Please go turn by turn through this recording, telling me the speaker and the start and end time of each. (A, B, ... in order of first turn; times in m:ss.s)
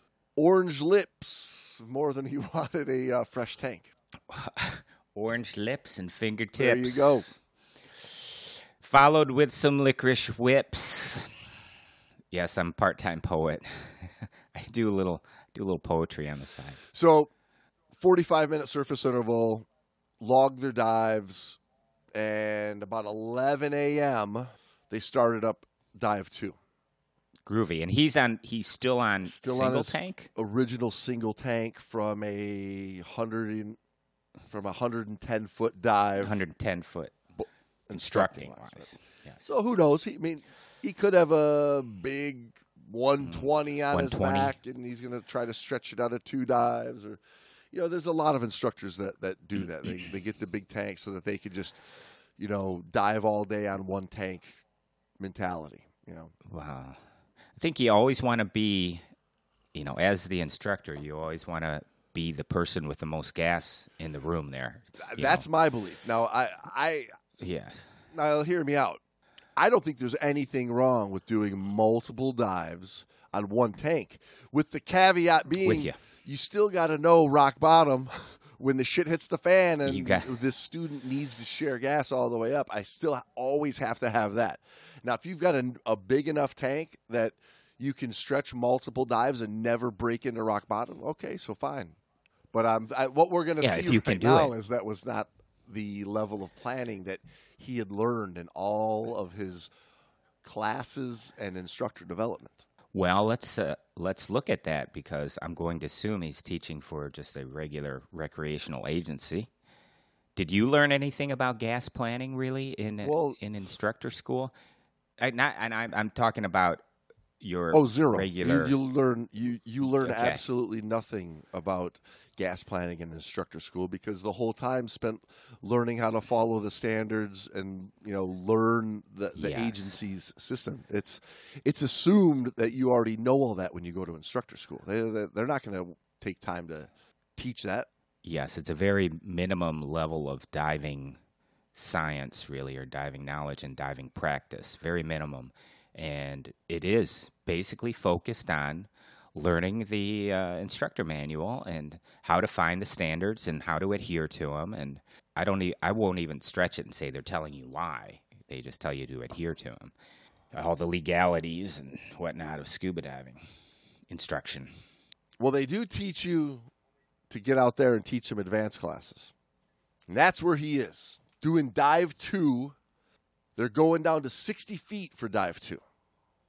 0:00.4-0:03.9 A
0:04.3-0:07.4 B
0:06.6-0:07.3 A
0:07.9-0:11.4 B
0:12.3-0:16.8 B
0:16.9-0:17.3 A
0:17.9-0:19.6 A
0:20.2-0:21.6 A
0:22.1-0:26.6 A
0:27.4-0:30.3 B
0:29.2-0:33.8 A
0:34.5-0:36.3 A
0:36.2-0:37.2 B
0:37.4-0:47.2 A
0:37.9-0:39.5 B
0:43.2-0:44.5 B
0:47.7-0:51.8 A
0:52.4-0:54.6 A
0:55.2-0:56.3 A
0:56.4-0:57.0 B
0:57.6-0:59.0 B
0:59.7-1:05.4 B
1:05.0-1:07.1 A
1:07.4-1:07.9 B
1:08.1-1:09.0 A
1:09.6-1:32.0 A
1:15.6-1:16.0 B
1:19.8-1:20.4 B
1:32.5-1:39.7 A
1:33.6-1:34.5 B
1:40.4-1:42.6 A
1:42.9-1:49.5 B
1:50.4-1:54.5 B
1:53.0-1:53.4 A
1:55.2-1:56.8 B
1:57.4-1:58.7 B
1:57.7-2:17.9 A
2:00.0-2:00.4 B
2:09.4-2:10.0 B
2:18.2-2:21.2 B
2:21.7-2:39.9 B
2:40.5-2:43.4 B
2:44.1-2:44.7 B
2:45.4-2:46.7 A
2:47.3-2:49.3 A
2:50.1-2:52.8 A
2:53.6-2:55.8 A